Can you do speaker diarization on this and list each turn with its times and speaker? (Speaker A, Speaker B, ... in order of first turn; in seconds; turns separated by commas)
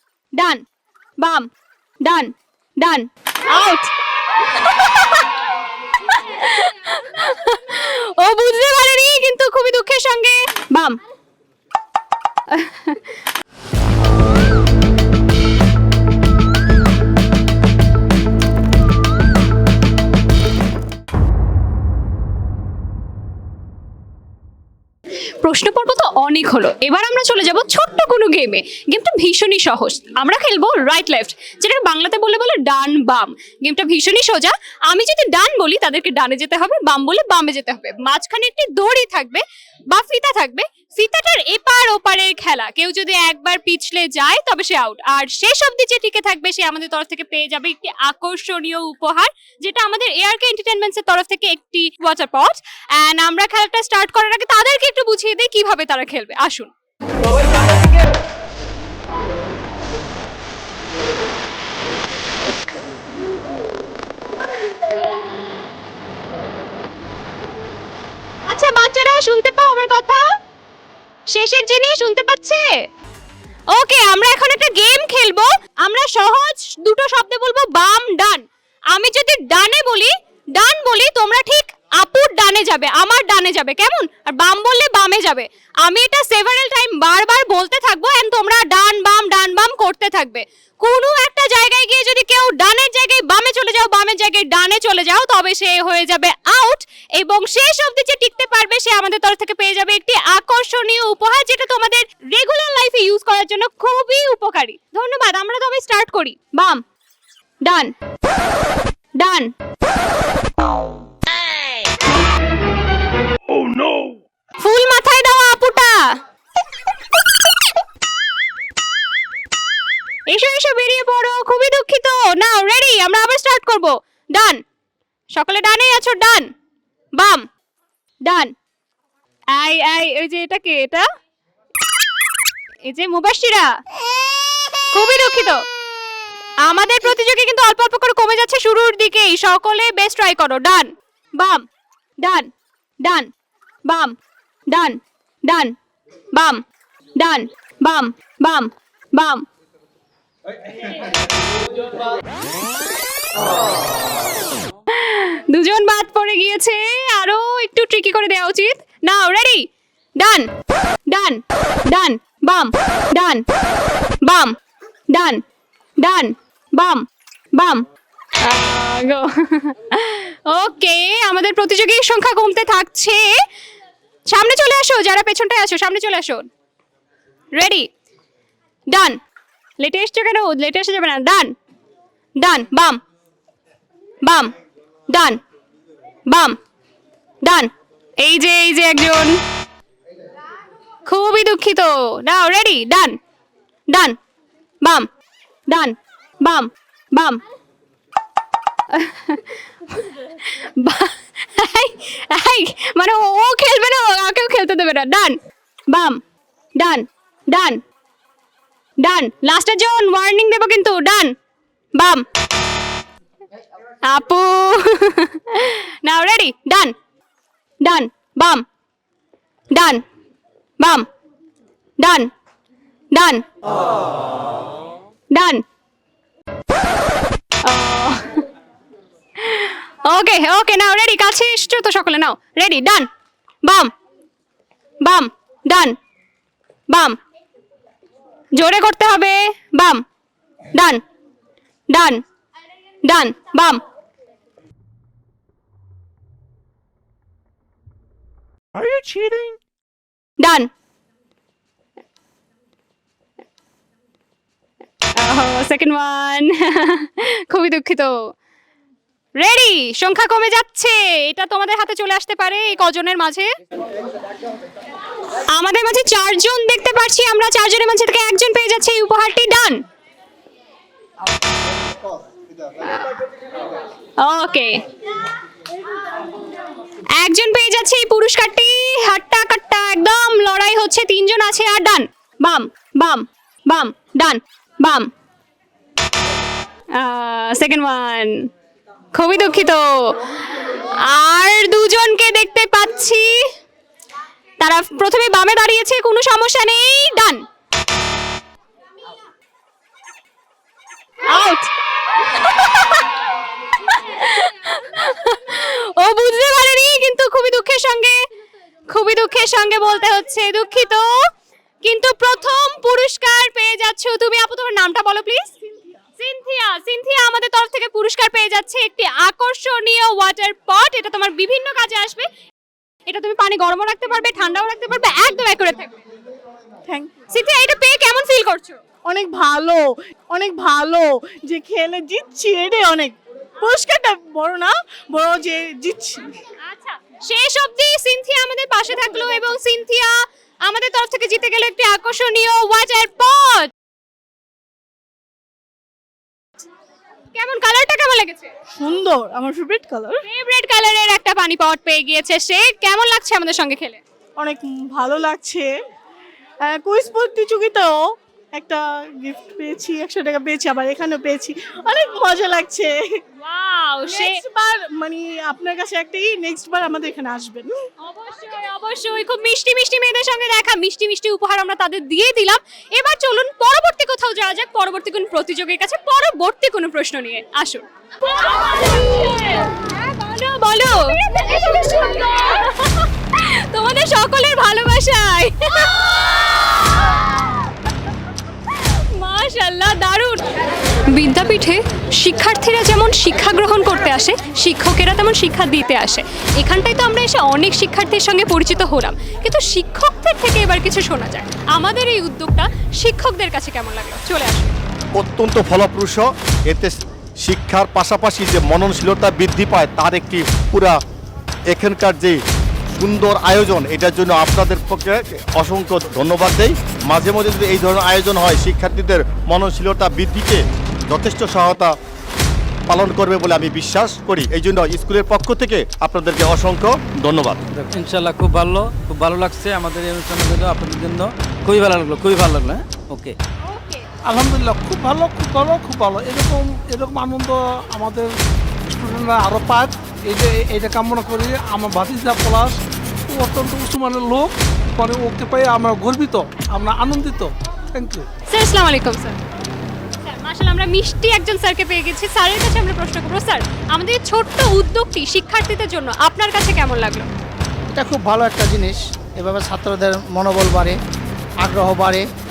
Speaker A: 0.4-0.6, Speaker A: 1.2-1.5, Speaker A: 2.0-5.2, Speaker A: 6.0-11.0, Speaker A: 12.5-13.0, Speaker A: 25.4-56.7, Speaker A: 68.5-70.2, Speaker A: 71.3-72.7, Speaker A: 73.7-106.8, Speaker A: 107.6-107.9, Speaker A: 109.2-109.5, Speaker A: 114.6-116.0, Speaker A: 120.3-124.6, Speaker A: 125.3-126.5, Speaker A: 127.2-127.5, Speaker A: 128.2-128.5, Speaker A: 129.5-131.1, Speaker A: 132.9-133.7, Speaker A: 134.9-135.6, Speaker A: 136.6-141.6, Speaker A: 142.2-142.5, Speaker A: 143.0-143.3, Speaker A: 143.9-144.2, Speaker A: 144.7-145.8, Speaker A: 146.3-146.6, Speaker A: 147.2-149.4, Speaker A: 154.9-159.7, Speaker A: 160.2-160.5, Speaker A: 161.1-163.4, Speaker A: 164.2-164.5, Speaker A: 165.1-165.4, Speaker A: 166.0-167.1, Speaker A: 167.6-167.8, Speaker A: 168.4-173.4, Speaker A: 174.3-176.5, Speaker A: 177.6-177.9, Speaker A: 178.9-179.2, Speaker A: 179.8-181.5, Speaker A: 182.4-183.0, Speaker A: 184.2-184.5, Speaker A: 185.1-185.4, Speaker A: 186.3-186.6, Speaker A: 187.4-189.4, Speaker A: 191.1-193.2, Speaker A: 193.9-194.2, Speaker A: 194.8-195.1, Speaker A: 195.7-197.4, Speaker A: 198.9-205.4, Speaker A: 205.9-206.2, Speaker A: 206.8-207.8, Speaker A: 209.0-211.3, Speaker A: 212.0-212.2, Speaker A: 214.1-216.9, Speaker A: 217.8-218.7, Speaker A: 219.7-220.0, Speaker A: 220.8-221.1, Speaker A: 222.0-222.3, Speaker A: 223.1-223.5, Speaker A: 225.3-225.6, Speaker A: 227.6-228.5, Speaker A: 229.4-233.1, Speaker A: 233.6-233.9, Speaker A: 235.0-235.9, Speaker A: 236.9-237.2, Speaker A: 238.6-240.0, Speaker A: 240.7-241.0, Speaker A: 241.9-242.2, Speaker A: 243.0-243.8, Speaker A: 250.4-250.7, Speaker A: 255.2-258.4, Speaker A: 259.4-263.5, Speaker A: 265.5-269.8, Speaker A: 274.2-274.8, Speaker A: 277.2-285.1, Speaker A: 287.0-288.5, Speaker A: 289.1-293.4, Speaker A: 294.6-297.4, Speaker A: 301.3-303.1, Speaker A: 303.7-308.2, Speaker A: 308.9-311.1, Speaker A: 311.8-315.5, Speaker A: 316.2-322.3, Speaker A: 323.1-326.0, Speaker B: 326.9-327.1, Speaker A: 327.3-328.8, Speaker B: 329.1-336.3, Speaker A: 336.7-343.7, Speaker A: 347.3-348.5, Speaker B: 348.8-350.2, Speaker A: 350.2-354.0, Speaker B: 354.4-355.7, Speaker B: 356.6-358.0, Speaker B: 358.6-363.0, Speaker A: 363.4-364.4, Speaker B: 364.1-367.7, Speaker A: 368.0-387.2, Speaker A: 388.7-390.4, Speaker A: 391.1-404.7, Speaker C: 405.2-411.0, Speaker C: 411.7-412.4, Speaker C: 412.9-421.9, Speaker C: 422.9-427.6, Speaker D: 427.8-433.4, Speaker A: 433.6-434.1, Speaker E: 434.2-438.3, Speaker E: 438.9-442.8, Speaker E: 443.3-448.2, Speaker A: 448.5-449.4, Speaker A: 450.2-457.3, Speaker F: 457.9-461.0, Speaker F: 461.6-462.2